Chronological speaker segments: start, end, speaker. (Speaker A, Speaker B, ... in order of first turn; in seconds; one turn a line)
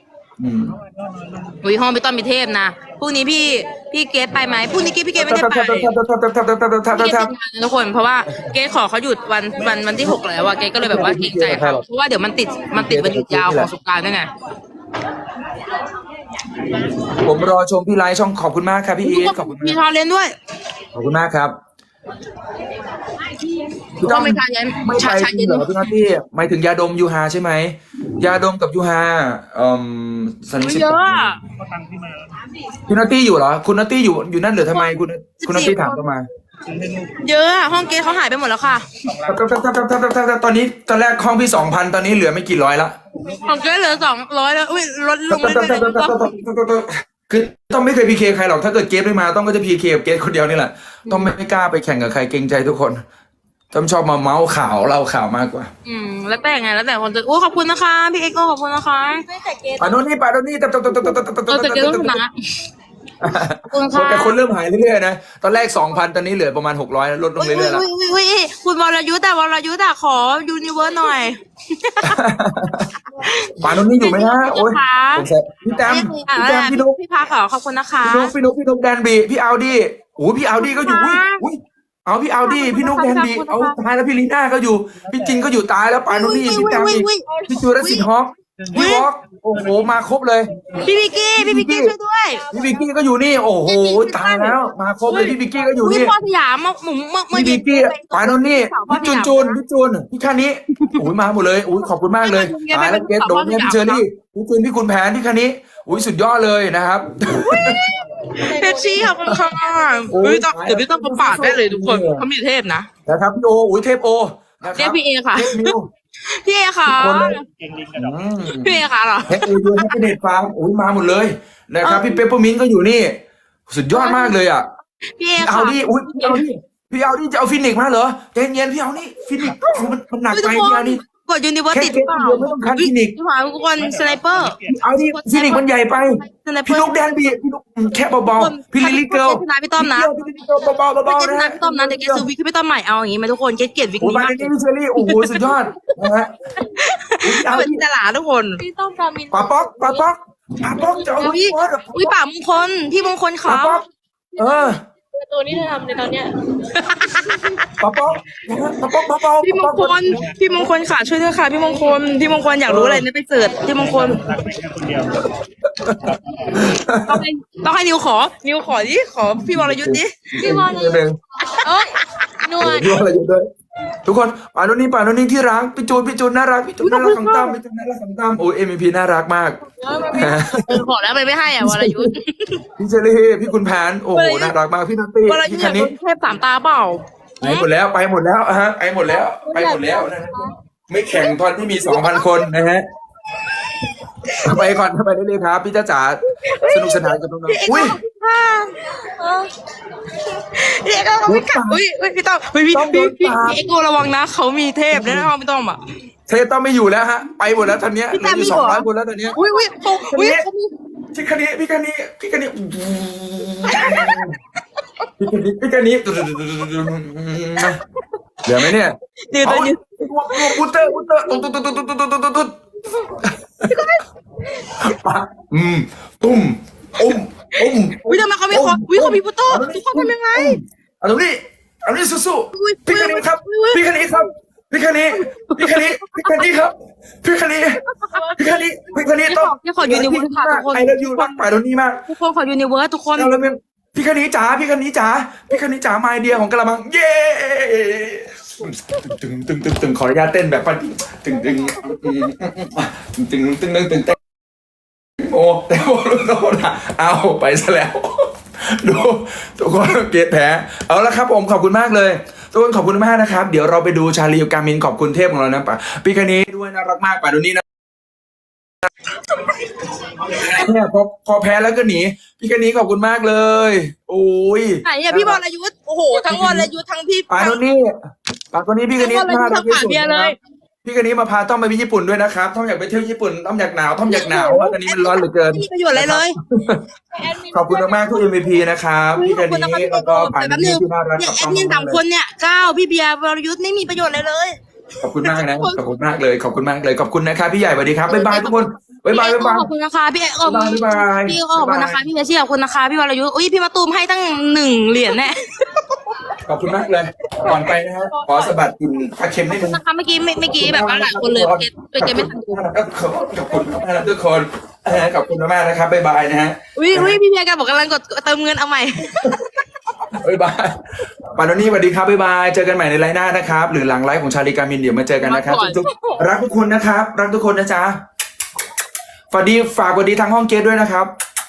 Speaker A: 0.4-0.8
Speaker B: 0.8-1.6
Speaker C: 1.6-5.9
Speaker A: 5.2-7.3
Speaker C: 6.9-14.3
Speaker A: 10.8-11.8
Speaker A: 12.7-13.7
Speaker A: 17.2-19.8
Speaker C: 19.0-20.4
Speaker A: 20.9-21.6
Speaker A: 24.0-31.4
Speaker C: 24.0-25.9
Speaker C: 30.6-31.4
Speaker B: 31.6-32.5
Speaker A: 32.9-36.3
Speaker C: 34.7-36.0
Speaker B: 36.7-37.2
Speaker C: 37.2-39.0
Speaker B: 39.0-39.5
Speaker A: 39.2-43.0
Speaker B: 43.1-44.0
Speaker C: 43.4-46.4
Speaker A: 45.3-53.0
Speaker C: 51.1-51.3
Speaker A: 53.7-55.7
Speaker C: 55.9-59.2
Speaker D: 59.3-60.0
Speaker A: 59.8-62.2
Speaker C: 60.9-62.5
Speaker A: 63.2-67.9
Speaker C: 63.6-64.4
Speaker C: 67.4-72.2
Speaker A: 72.0-72.9
Speaker C: 73.2-75.3
Speaker A: 73.6-77.0
Speaker C: 75.8-78.3
Speaker A: 78.0-90.5
Speaker C: 80.5-81.4
Speaker C: 82.4-83.8
Speaker B: 85.0-85.6
Speaker C: 86.1-88.1
Speaker D: 87.3-87.6
Speaker B: 88.6-90.0
Speaker C: 88.7-89.1
Speaker B: 90.5-90.9
Speaker D: 90.8-91.4
Speaker C: 90.8-92.5
Speaker A: 91.3-92.0
Speaker D: 92.3-92.9
Speaker A: 92.5-96.2
Speaker C: 93.7-99.6
Speaker D: 95.1-95.6
Speaker A: 97.3-107.9
Speaker C: 100.8-101.1
Speaker C: 102.2-104.0
Speaker C: 107.4-112.9
Speaker D: 108.3-110.1
Speaker A: 110.1-112.2
Speaker A: 113.1-115.9
Speaker C: 114.7-117.5
Speaker A: 116.9-117.4
Speaker B: 117.5-118.4
Speaker A: 118.0-123.2
Speaker C: 118.4-120.0
Speaker C: 121.8-122.2
Speaker A: 123.7-124.7
Speaker C: 123.9-124.4
Speaker C: 125.2-126.5
Speaker A: 125.4-131.0
Speaker C: 129.4-137.2
Speaker A: 131.7-133.2
Speaker B: 133.7-134.8
Speaker A: 134.7-142.2
Speaker C: 138.2-140.1
Speaker C: 141.1-145.9
Speaker A: 144.0-146.3
Speaker C: 146.6-148.6
Speaker A: 147.2-147.8
Speaker D: 148.6-150.1
Speaker A: 149.3-152.1
Speaker D: 150.8-151.3
Speaker C: 151.2-153.8
Speaker A: 153.5-153.9
Speaker D: 154.3-156.4
Speaker A: 154.4-154.8
Speaker C: 156.7-157.6
Speaker A: 157.8-160.2
Speaker B: 158.1-158.4
Speaker C: 159.2-164.2
Speaker B: 160.0-160.6
Speaker A: 162.7-163.1
Speaker B: 163.7-165.3
Speaker A: 165.2-167.2
Speaker B: 166.0-166.7
Speaker C: 166.9-170.5
Speaker A: 169.5-171.2
Speaker D: 170.4-172.0
Speaker C: 171.5-173.0
Speaker A: 172.6-173.5
Speaker A: 174.1-179.6
Speaker C: 176.8-177.6
Speaker D: 179.7-180.6
Speaker A: 180.1-180.8
Speaker C: 180.6-182.6
Speaker A: 181.6-182.1
Speaker A: 182.8-185.9
Speaker C: 184.1-184.6
Speaker C: 185.2-187.7
Speaker A: 187.4-192.9
Speaker D: 189.3-190.5
Speaker C: 191.2-192.4
Speaker C: 194.3-194.7
Speaker A: 194.4-198.0
Speaker C: 196.4-198.8
Speaker D: 199.1-199.5
Speaker C: 200.5-205.8
Speaker A: 201.2-201.8
Speaker A: 202.7-203.6
Speaker A: 204.9-205.3
Speaker A: 206.3-209.4
Speaker C: 208.1-210.8
Speaker D: 209.4-209.8
Speaker A: 210.1-210.4
Speaker A: 211.1-214.4
Speaker C: 213.7-214.3
Speaker A: 215.2-217.8
Speaker C: 217.6-218.0
Speaker A: 218.4-222.6
Speaker C: 219.3-221.5
Speaker C: 223.6-224.6
Speaker A: 224.7-237.8
Speaker C: 227.0-230.6
Speaker C: 232.5-234.3
Speaker C: 235.2-236.5
Speaker C: 237.8-238.3
Speaker A: 238.3-242.0
Speaker C: 239.2-241.4
Speaker C: 242.1-243.3
Speaker A: 243.2-254.2
Speaker A: 255.2-267.6
Speaker C: 270.4-270.6
Speaker A: 270.4-275.4
Speaker C: 274.8-277.6
Speaker A: 276.3-276.7
Speaker A: 277.3-278.0
Speaker A: 278.5-286.9
Speaker C: 279.0-280.4
Speaker C: 284.1-286.4
Speaker D: 287.1-288.5
Speaker A: 287.5-292.0
Speaker C: 289.2-294.6
Speaker A: 295.0-299.7
Speaker C: 295.2-295.8
Speaker C: 298.1-306.2
Speaker A: 300.4-302.0
Speaker A: 306.4-309.8
Speaker C: 308.1-308.5
Speaker C: 309.5-312.6
Speaker A: 310.6-317.2
Speaker C: 316.8-319.6
Speaker A: 320.1-320.8
Speaker A: 321.3-328.0
Speaker C: 325.2-326.2
Speaker A: 329.3-331.1